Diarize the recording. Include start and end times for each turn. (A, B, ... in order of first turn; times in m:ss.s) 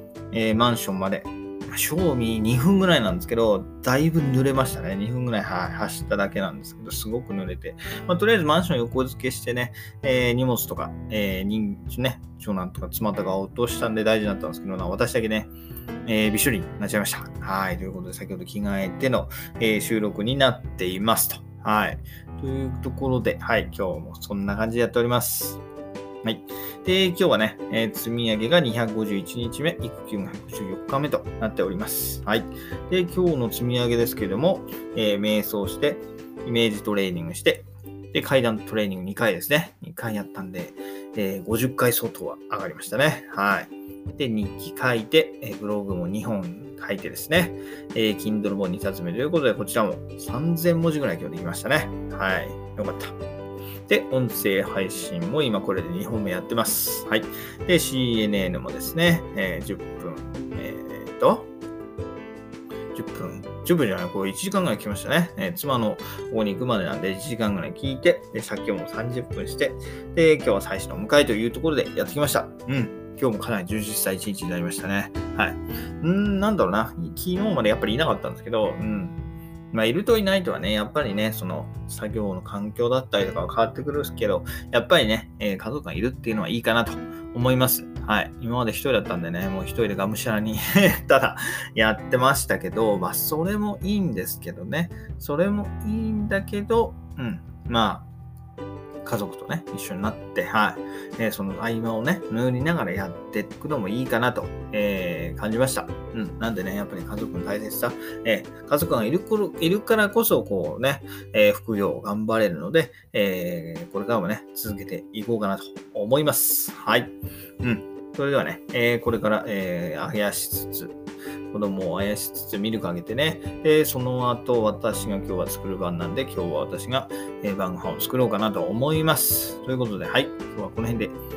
0:00.3-0:15.5 A
0:16.0-0:25.6 A
0:26.2-0:53.1 A
0:53.9-1:01.5 A
1:02.9-1:19.2 A
1:19.7-1:38.1 A
1:39.0-2:01.0 A
2:01.5-2:11.2 A